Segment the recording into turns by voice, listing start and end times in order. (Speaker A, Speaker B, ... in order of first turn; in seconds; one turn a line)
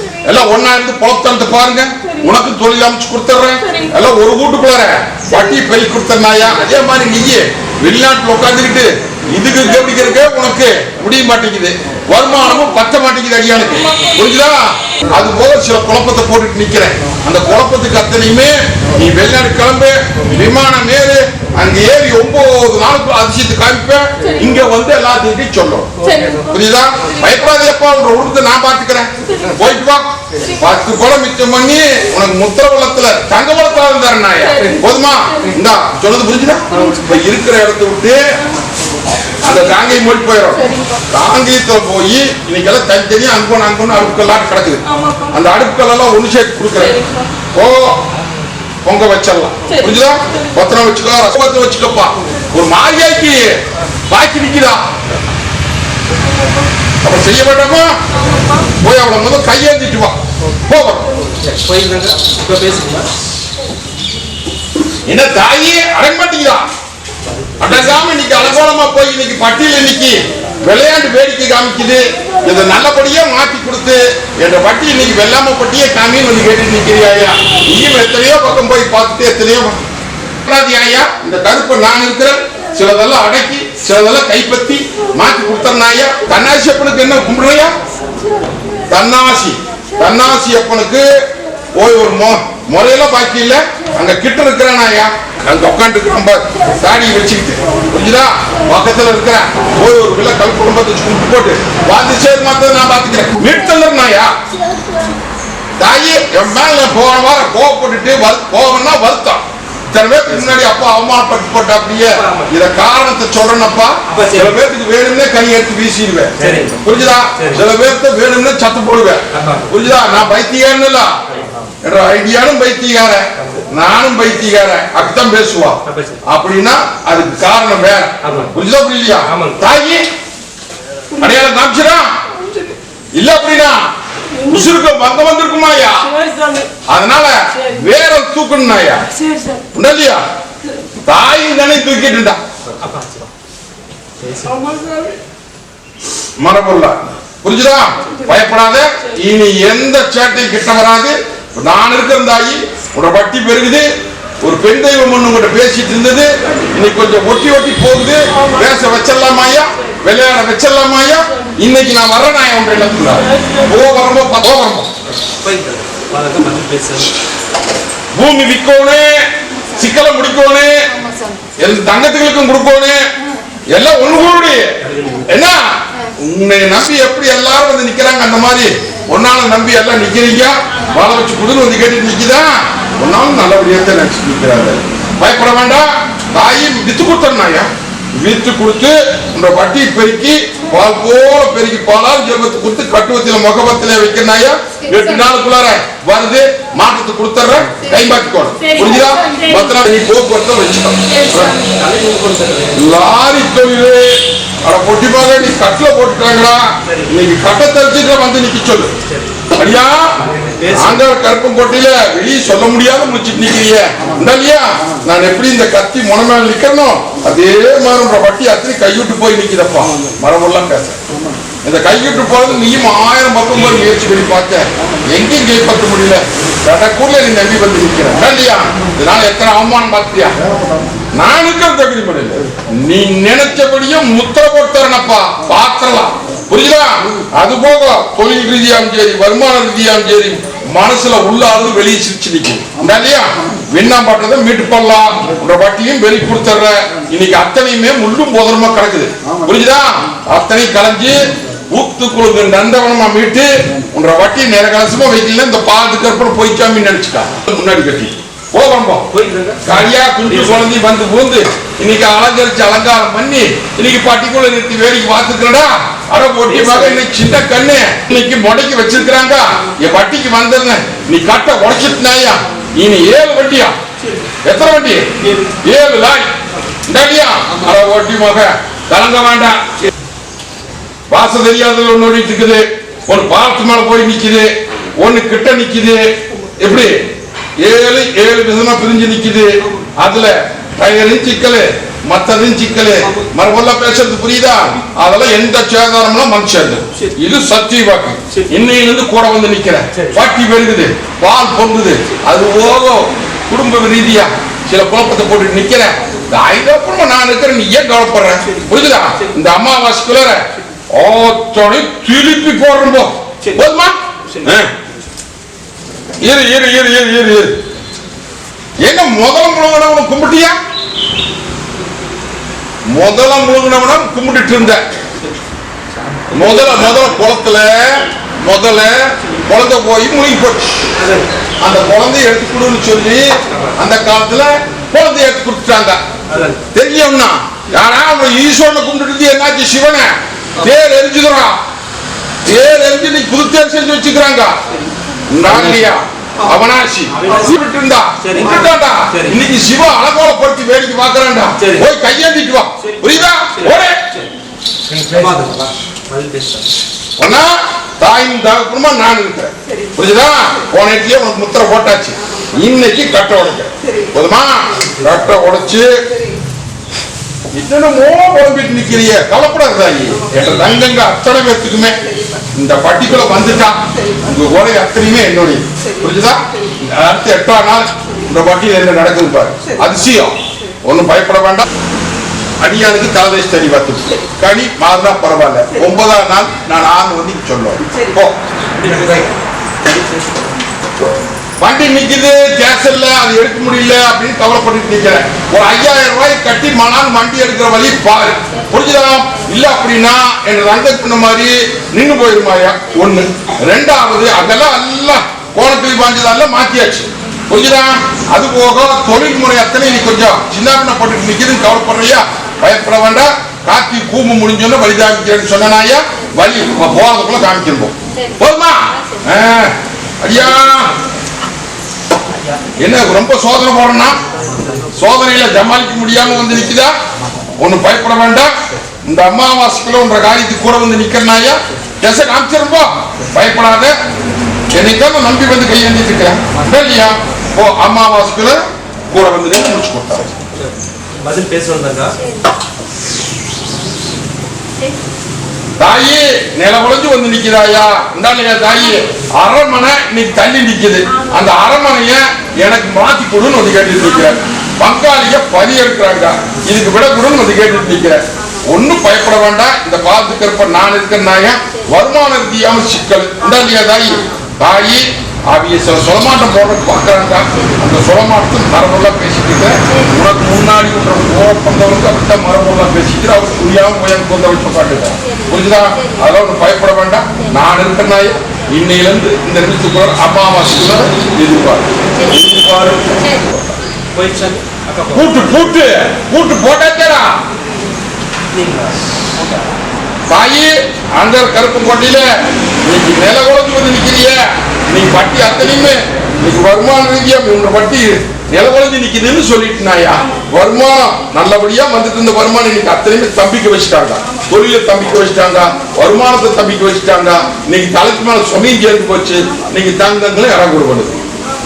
Speaker A: 0.2-38.2
Speaker B: 26.0-26.4
Speaker A: 39.4-47.0
Speaker C: 44.9-45.3
Speaker A: 47.5-48.0
Speaker A: 48.8-53.5
Speaker A: 54.1-54.8
Speaker A: 57.0-58.0
Speaker A: 58.7-60.1
Speaker A: 60.7-61.1
Speaker B: 61.3-63.1
Speaker A: 65.1-66.6
Speaker B: 67.6-68.5
Speaker A: 67.6-79.8
Speaker A: 80.5-87.7
Speaker A: 88.9-91.2
Speaker A: 91.8-104.3
Speaker A: 105.8-121.1
Speaker B: 112.1-112.5
Speaker B: 114.1-114.5
Speaker B: 116.4-117.6
Speaker B: 119.3-119.7
Speaker A: 121.8-130.0
Speaker B: 123.4-123.6
Speaker B: 125.8-126.2
Speaker B: 128.2-128.6
Speaker B: 129.2-129.6
Speaker A: 131.2-132.1
Speaker A: 133.2-133.8
Speaker A: 134.4-136.1
Speaker C: 136.2-136.7
Speaker A: 136.9-139.1
Speaker C: 139.3-139.6
Speaker A: 139.7-140.2
Speaker A: 141.1-142.4
Speaker B: 142.7-143.3
Speaker B: 144.2-144.8
Speaker C: 144.7-145.1
Speaker A: 146.4-153.9
Speaker A: 154.4-164.9
Speaker B: 165.2-167.1
Speaker A: 168.1-170.8
Speaker C: 171.0-171.3
Speaker A: 171.6-173.0
Speaker A: 173.7-174.7
Speaker B: 174.8-175.3
Speaker A: 175.3-201.6
Speaker C: 198.9-199.5
Speaker C: 201.2-201.7
Speaker B: 201.6-202.8
Speaker A: 202.8-208.9
Speaker A: 209.5-210.2
Speaker B: 210.2-211.0
Speaker A: 210.7-221.0
Speaker A: 221.6-230.3
Speaker A: 231.2-251.2
Speaker A: 251.7-259.1
Speaker B: 259.1-260.7
Speaker A: 259.6-273.8
Speaker B: 266.5-267.0
Speaker A: 274.4-275.1
Speaker A: 275.6-276.3
Speaker A: 276.9-279.6
Speaker A: 281.1-287.0
Speaker A: 287.6-314.7
Speaker A: 316.2-317.5
Speaker A: 318.8-320.6
Speaker A: 322.9-324.8
Speaker A: 326.3-330.9
Speaker B: 326.4-326.9
Speaker B: 331.0-331.3
Speaker A: 331.6-333.2
Speaker B: 333.5-333.7
Speaker A: 333.8-336.0
Speaker B: 336.3-336.6
Speaker A: 336.7-341.6
Speaker A: 342.4-344.6
Speaker A: 345.3-354.1
Speaker B: 347.1-347.5
Speaker B: 348.2-349.4
Speaker B: 351.6-351.9
Speaker B: 352.8-354.3
Speaker B: 354.9-356.7
Speaker A: 357.2-365.9
Speaker A: 367.6-372.0
Speaker A: 372.6-381.7
Speaker A: 382.6-388.4
Speaker B: 388.7-389.3
Speaker A: 391.6-420.9
Speaker A: 422.8-424.2
Speaker A: 424.9-426.9
Speaker A: 427.6-428.5
Speaker A: 429.0-433.9
Speaker A: 434.7-440.3
Speaker B: 440.6-442.2
Speaker A: 445.8-483.8
Speaker B: 484.1-485.3
Speaker A: 485.1-487.4
Speaker B: 488.5-488.9
Speaker A: 490.3-492.2
Speaker A: 492.9-494.4
Speaker A: 494.9-511.2